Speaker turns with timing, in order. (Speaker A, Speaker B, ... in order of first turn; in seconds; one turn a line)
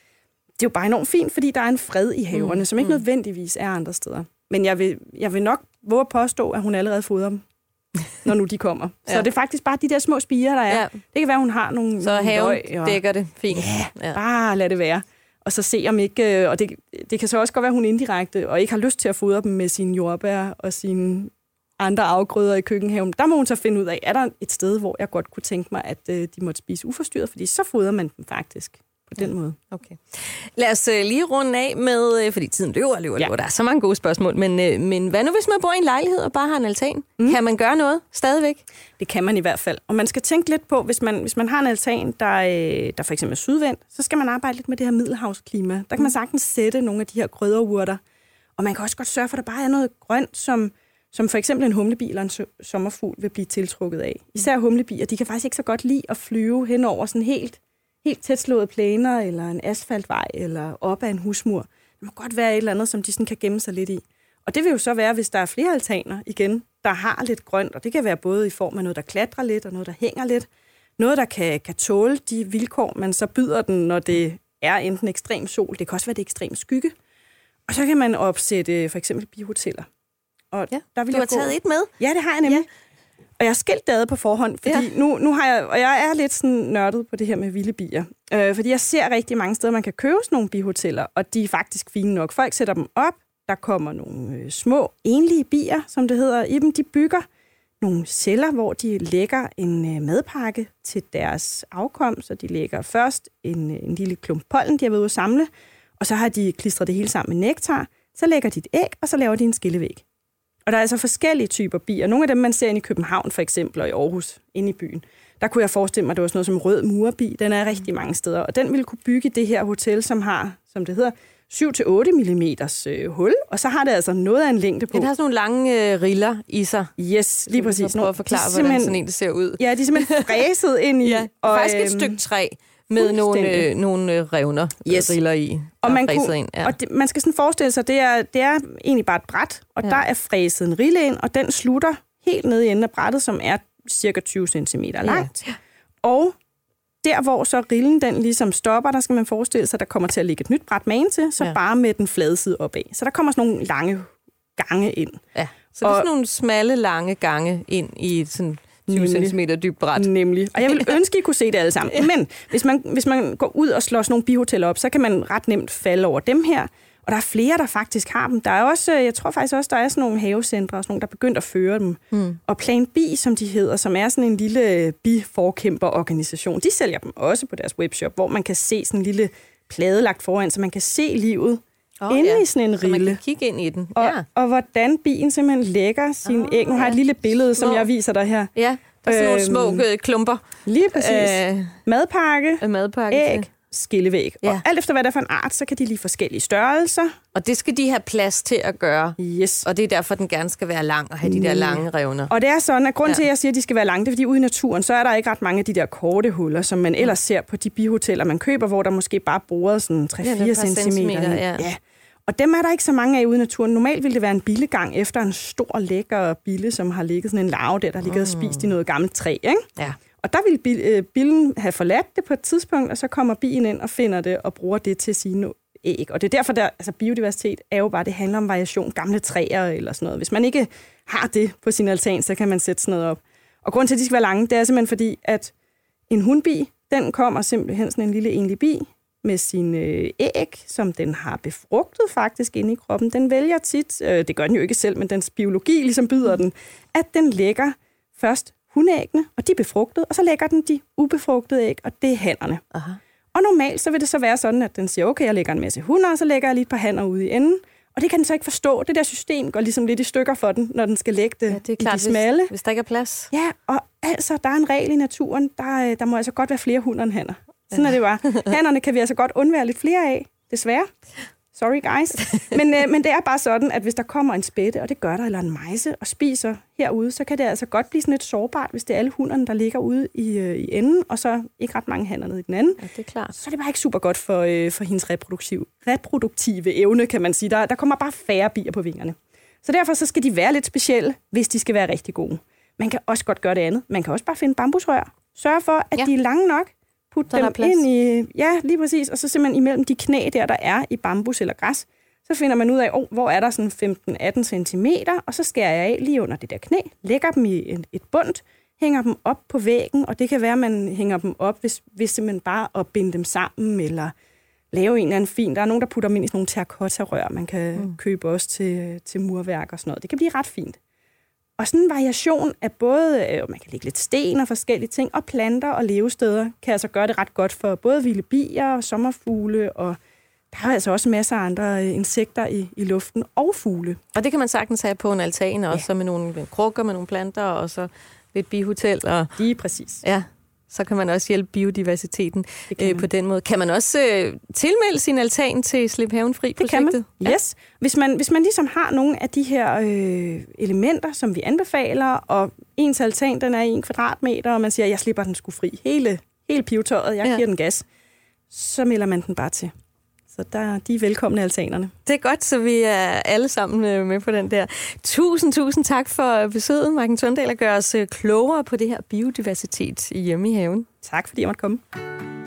Speaker A: 0.6-7.4
Speaker B: 2.3-3.0
Speaker A: 8.2-13.0
Speaker B: 10.7-10.9
Speaker B: 12.0-14.2
Speaker A: 13.5-29.6
Speaker B: 29.2-38.6
Speaker A: 39.0-48.0
Speaker A: 48.6-76.9
Speaker A: 77.7-79.8
Speaker A: 80.5-82.7
Speaker B: 80.7-81.9
Speaker A: 83.4-97.2
Speaker A: 97.8-110.0
Speaker A: 110.7-125.1
Speaker B: 124.9-126.9
Speaker A: 127.0-129.0
Speaker B: 127.5-130.5
Speaker A: 129.6-132.2
Speaker B: 131.0-136.8
Speaker A: 132.9-133.7
Speaker A: 134.8-135.2
Speaker A: 135.8-145.4
Speaker B: 145.0-145.5
Speaker A: 146.0-146.3
Speaker A: 147.0-155.2
Speaker B: 155.3-160.9
Speaker A: 155.7-156.1
Speaker A: 158.9-159.3
Speaker A: 159.9-183.2
Speaker B: 172.1-172.4
Speaker B: 182.0-184.2
Speaker A: 183.9-188.5
Speaker B: 186.2-187.0
Speaker B: 187.6-187.9
Speaker B: 188.6-191.8
Speaker A: 189.0-189.8
Speaker A: 190.7-197.2
Speaker B: 192.6-193.5
Speaker B: 197.3-202.3
Speaker A: 199.2-199.7
Speaker A: 201.2-235.5
Speaker B: 210.2-211.7
Speaker B: 218.0-218.7
Speaker A: 236.1-252.6
Speaker B: 252.7-253.0
Speaker A: 253.3-262.5
Speaker B: 261.5-263.3
Speaker A: 263.3-270.9
Speaker B: 267.7-268.5
Speaker A: 271.5-314.1
Speaker B: 282.8-283.3
Speaker B: 297.3-297.8
Speaker A: 314.7-320.8
Speaker A: 321.6-330.0
Speaker A: 330.5-334.0
Speaker B: 334.1-339.4
Speaker A: 339.4-340.0
Speaker B: 340.0-347.4
Speaker A: 342.7-343.1
Speaker A: 346.6-357.8
Speaker A: 358.5-359.7
Speaker A: 360.3-361.9
Speaker B: 362.1-370.9
Speaker A: 371.0-371.8